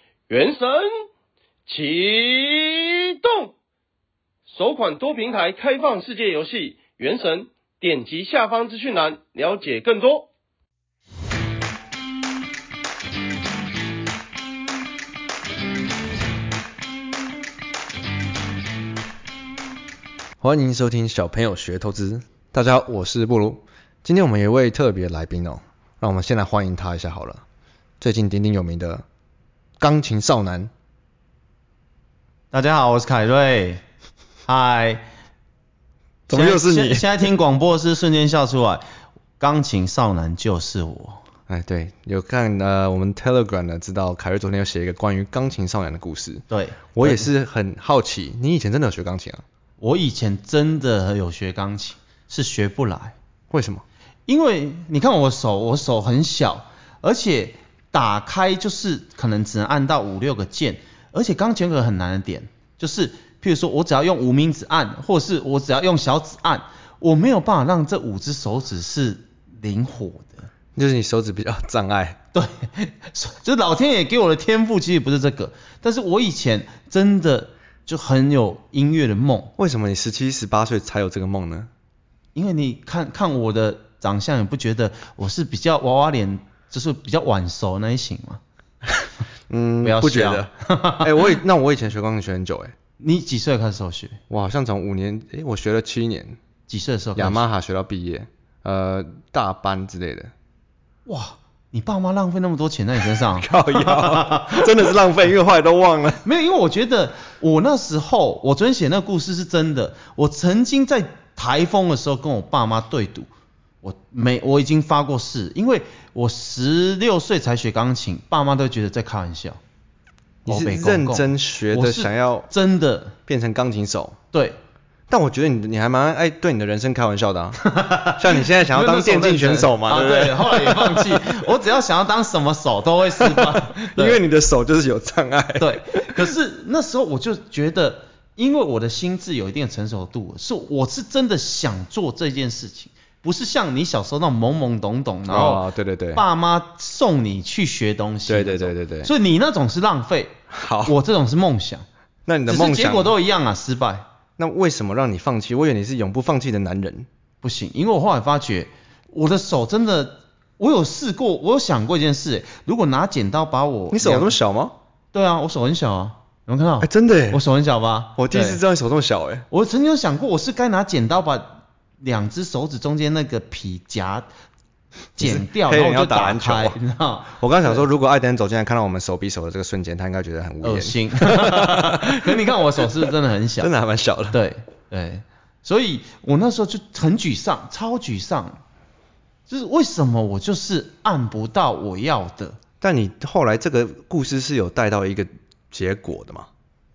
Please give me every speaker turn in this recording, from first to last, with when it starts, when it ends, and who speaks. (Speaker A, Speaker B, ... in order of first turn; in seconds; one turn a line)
Speaker A: 0.3-0.9
Speaker A: 1.7-3.5
Speaker A: 4.5-10.3
Speaker B: 20.4-27.4
Speaker B: 28.0-29.0
Speaker B: 29.8-30.7
Speaker C: 32.5-33.8
Speaker C: 34.5-35.0
Speaker B: 36.3-37.1
Speaker C: 36.3-38.8
Speaker C: 39.4-41.2
Speaker B: 41.5-49.4
Speaker C: 46.5-47.3
Speaker C: 49.8-53.1
Speaker B: 53.5-53.8
Speaker C: 54.3-70.5
Speaker B: 70.8-72.2
Speaker C: 72.3-79.5
Speaker B: 79.6-81.7
Speaker C: 82.3-88.4
Speaker B: 89.5-92.7
Speaker C: 89.8-91.3
Speaker C: 93.0-94.2
Speaker B: 94.3-96.4
Speaker C: 96.7-97.4
Speaker B: 97.2-100.3
Speaker C: 101.0-104.9
Speaker B: 103.1-106.2
Speaker C: 106.2-113.3
Speaker C: 113.8-119.6
Speaker C: 120.4-123.1
Speaker B: 120.5-122.5
Speaker B: 123.3-124.2
Speaker B: 125.1-131.4
Speaker C: 127.6-134.2
Speaker B: 133.2-136.3
Speaker C: 135.6-151.8
Speaker B: 145.3-146.2
Speaker B: 148.3-149.1
Speaker B: 150.5-150.9
Speaker B: 152.2-153.1
Speaker C: 152.5-154.1
Speaker B: 154.4-157.1
Speaker C: 157.4-164.3
Speaker B: 163.9-164.7
Speaker C: 165.1-168.6
Speaker B: 166.8-167.4
Speaker B: 168.2-169.4
Speaker C: 169.5-174.3
Speaker C: 175.2-177.8
Speaker B: 175.2-176.8
Speaker B: 177.4-182.9
Speaker C: 180.6-183.7
Speaker B: 183.6-184.4
Speaker C: 184.3-188.6
Speaker C: 189.5-192.6
Speaker B: 192.8-196.5